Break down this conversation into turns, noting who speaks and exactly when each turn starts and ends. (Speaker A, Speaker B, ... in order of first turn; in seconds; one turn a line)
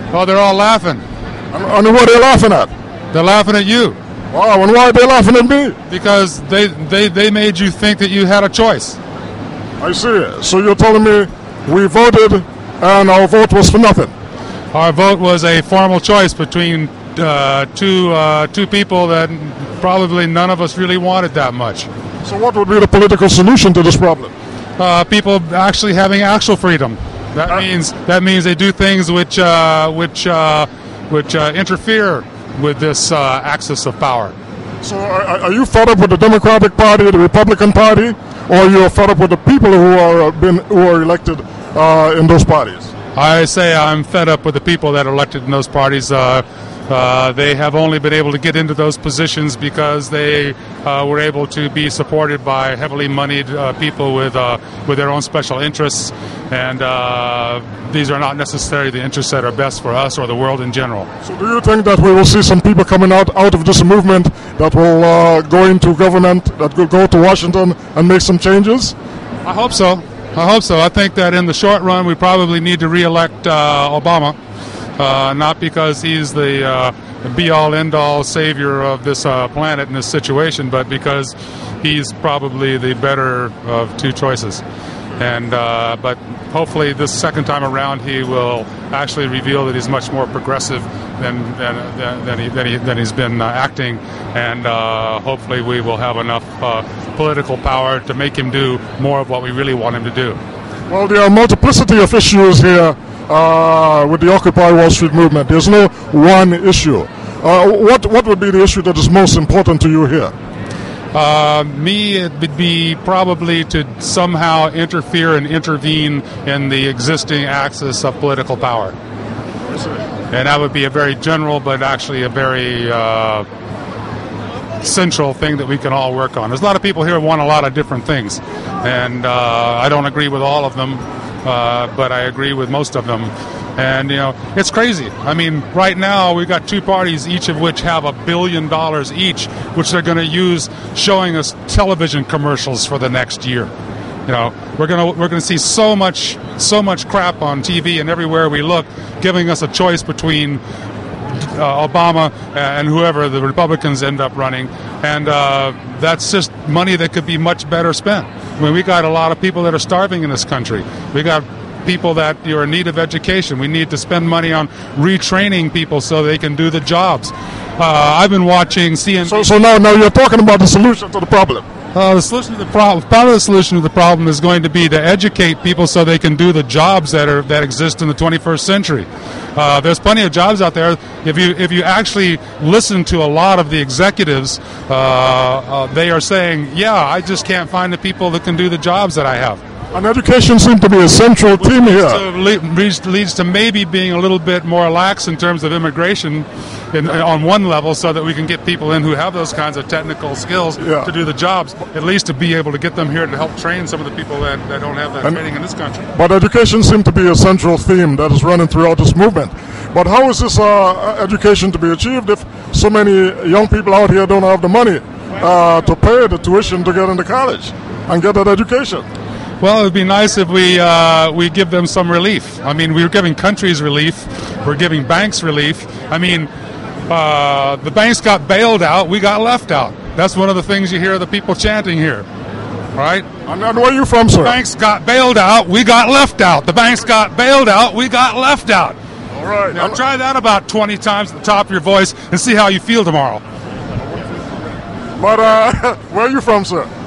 Speaker A: 0.1-1.0
Speaker B: 1.5-2.7
Speaker A: 3.1-4.0
Speaker B: 4.3-5.8
Speaker A: 5.9-9.0
Speaker B: 9.8-14.1
Speaker A: 14.7-21.9
Speaker B: 22.2-24.3
Speaker A: 24.8-34.3
Speaker B: 34.8-42.9
Speaker A: 43.1-61.1
Speaker B: 61.2-69.0
Speaker A: 69.4-74.4
Speaker A: 75.0-84.6
Speaker A: 85.2-100.4
Speaker B: 100.9-110.3
Speaker A: 111.1-119.0
Speaker A: 120.3-123.5
Speaker A: 124.8-143.7
Speaker A: 144.3-150.6
Speaker A: 151.3-169.5
Speaker B: 169.2-171.6
Speaker A: 171.9-189.6
Speaker B: 189.9-192.2
Speaker A: 191.6-206.1
Speaker B: 200.8-201.1
Speaker B: 206.2-219.1
Speaker A: 219.6-226.5
Speaker A: 227.1-232.2
Speaker A: 232.9-233.3
Speaker B: 233.5-234.6
Speaker A: 234.4-239.0
Speaker B: 239.3-240.0
Speaker A: 239.7-243.4
Speaker B: 245.2-246.9